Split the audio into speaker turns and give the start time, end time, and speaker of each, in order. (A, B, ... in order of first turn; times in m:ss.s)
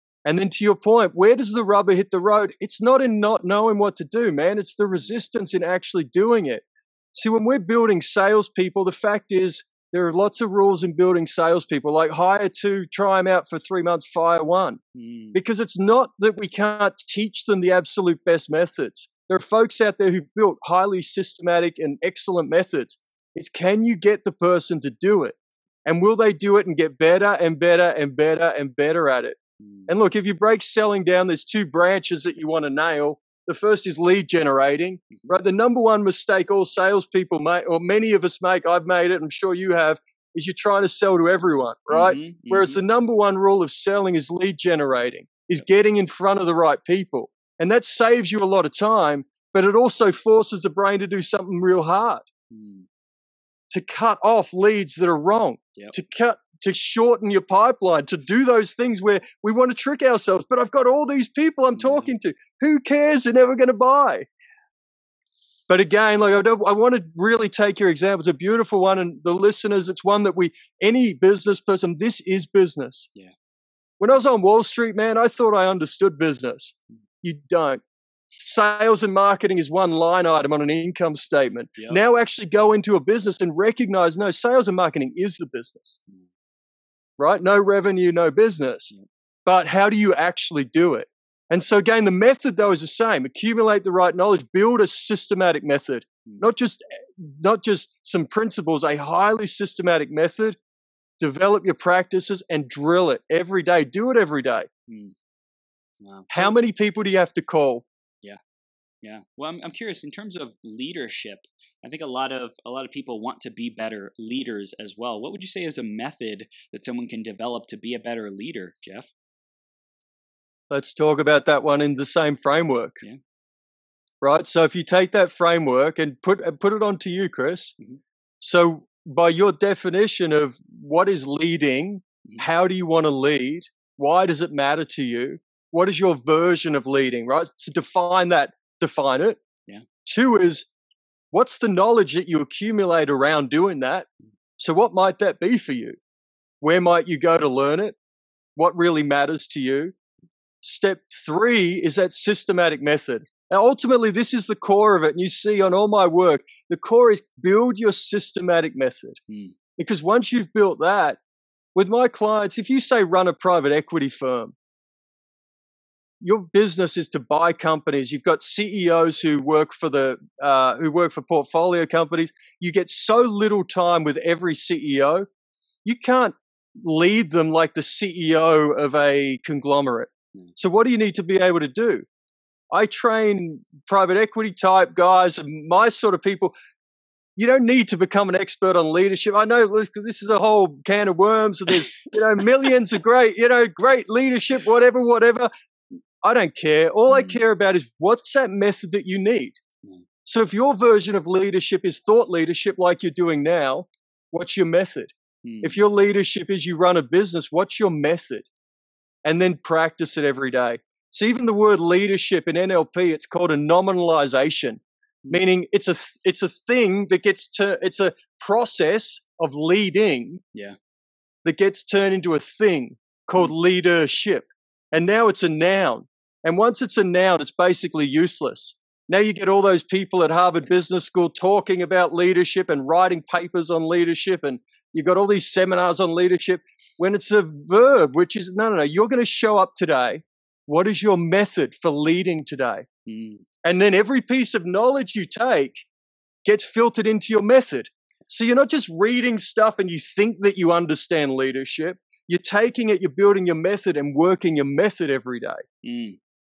0:00.2-0:14.8 A
0:14.9-0:15.4 B
0:15.3-0:52.2 A
0:29.6-0:29.9 B
0:41.9-0:42.8 B
0:52.5-0:52.8 B
0:53.7-1:04.3 A
1:01.8-1:02.1 B
1:05.7-1:13.1 A
1:14.0-1:17.8 A
1:18.4-1:26.0 A
1:27.2-1:28.9 A
1:29.4-1:40.6 A
1:41.2-1:44.7 A
1:44.9-1:45.1 B
1:46.0-1:46.5 B
1:46.3-1:47.8 A
1:49.0-1:59.1 B
2:00.7-2:03.0 A
2:04.2-2:07.7 A
2:08.4-2:19.4 A
2:20.0-2:20.7 A
2:21.3-2:24.1 A
2:24.6-2:26.0 A
2:26.6-2:28.0 A
2:28.6-2:29.9 A
2:30.6-2:39.2 A
2:39.3-2:39.5 B
2:39.8-2:41.2 A
2:41.7-2:44.5 A
2:46.2-2:55.3 A
2:55.8-3:02.0 A
3:02.7-3:06.5 A
3:07.4-3:15.5 A
3:16.2-3:19.6 A
3:17.1-3:17.4 B
3:20.2-3:28.4 A
3:25.4-3:25.8 B
3:29.2-3:40.4 A
3:41.4-4:02.8 A
4:03.0-4:03.4 B
4:03.6-4:05.8 A
4:06.4-4:15.6 A
4:15.8-4:16.2 B